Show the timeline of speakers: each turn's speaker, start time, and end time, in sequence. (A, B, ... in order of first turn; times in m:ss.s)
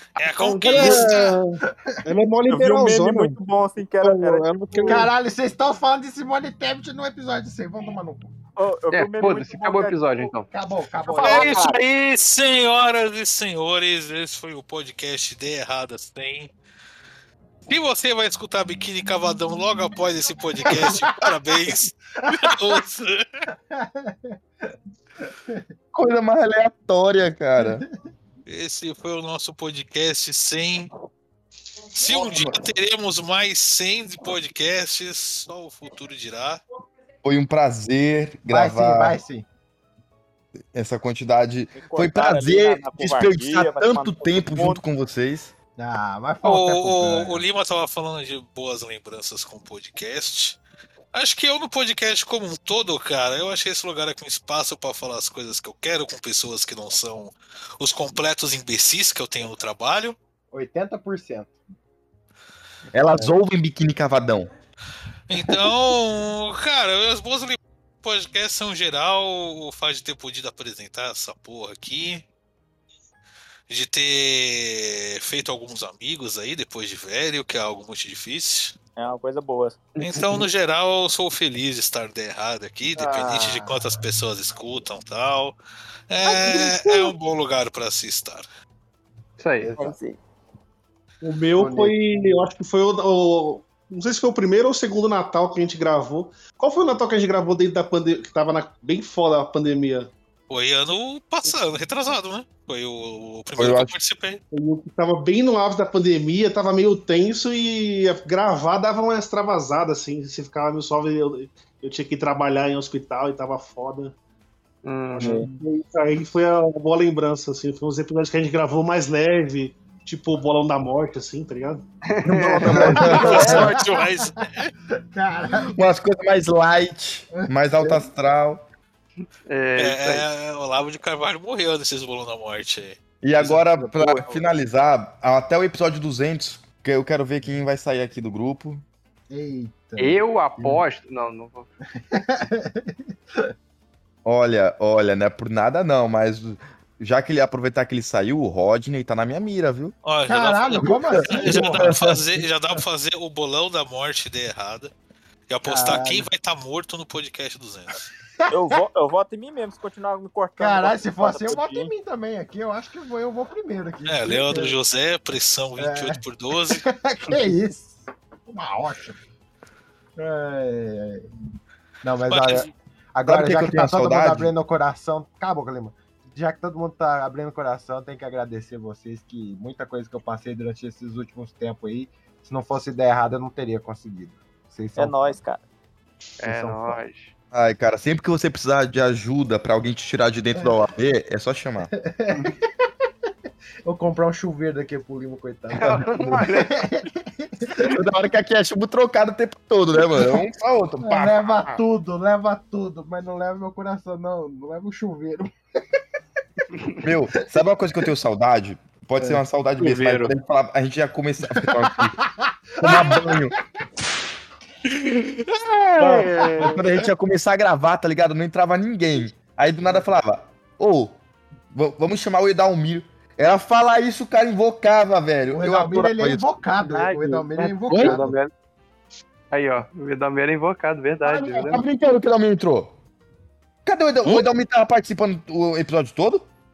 0:00.2-0:01.4 A
0:00.4-0:03.4 B
0:00.7-0:01.0 C
0:02.5-0:05.1 C
0:04.0-0:05.1 B
0:04.8-0:08.3 D
0:08.6-0:10.3 C
0:08.9-0:10.5 E
0:10.5-0:11.6 D
0:11.1-0:11.8 C
0:11.2-0:16.5 A
0:17.7-0:23.3 A
0:20.7-0:21.1 D
0:22.3-0:22.6 D
0:23.7-0:24.4 D
0:25.3-0:25.6 D
0:25.9-0:27.8 F
0:28.5-0:30.9 A
0:32.0-0:36.6 A
0:32.1-0:32.5 D
0:37.2-0:39.2 F
0:38.5-0:39.5 D
0:40.7-0:45.5 F
0:41.7-0:44.8 C
0:45.8-0:47.4 D
0:46.4-0:50.6 A
0:51.1-1:00.2 A
1:00.5-1:01.5 D
1:02.9-1:04.5 F
1:05.3-1:12.2 A
1:13.7-1:18.8 A
1:19.0-1:19.8 C
1:20.0-1:25.6 A
1:23.1-1:23.7 C
1:26.1-1:28.5 A
1:29.4-1:29.7 E
1:29.6-1:30.0 D
1:29.8-1:30.2 C
1:31.2-1:40.1 B
1:31.6-1:31.9 D
1:40.5-1:44.4 A
1:43.6-1:43.9 F
1:44.5-1:54.2 B
1:54.8-1:55.4 E
1:55.2-2:01.8 B
2:02.1-2:03.7 E
2:02.2-2:03.8 F
2:02.8-2:04.2 D
2:03.1-2:04.7 A
2:05.1-2:05.9 D
2:05.6-2:08.6 F
2:07.4-2:08.0 D
2:09.5-2:10.3 E
2:09.8-2:13.0 A
2:13.2-2:18.8 F
2:13.4-2:14.4 C
2:19.3-2:20.2 D
2:20.0-2:21.7 E
2:22.1-2:23.5 D
2:24.2-2:30.0 F
2:30.0-2:34.9 A
2:30.3-2:32.0 D
2:30.7-2:32.4 F
2:35.5-2:38.0 A
2:35.6-2:36.3 D
2:38.5-2:41.9 C
2:40.6-2:44.8 D
2:44.1-2:46.8 A
2:45.8-2:49.2 D
2:50.2-2:51.3 D
2:52.0-3:05.4 D
2:52.3-2:52.7 A
2:53.2-2:54.5 F
3:05.0-3:05.6 C
3:06.4-3:07.3 E
3:06.4-3:07.0 D
3:07.5-3:11.9 F
3:12.0-3:12.6 D
3:13.8-3:17.9 D
3:15.8-3:16.9 E
3:15.8-3:16.5 F
3:17.9-3:21.8 F
3:21.0-3:25.5 D
3:27.0-3:32.2 F
3:29.8-3:30.3 E
3:31.6-3:33.5 D
3:32.8-3:33.6 F
3:34.9-3:41.2 F
3:36.1-3:36.8 E
3:41.7-3:46.6 F
3:45.5-3:48.4 D
3:46.8-3:48.5 E
3:49.5-3:51.9 E
3:51.2-3:53.0 F
3:53.8-3:56.5 F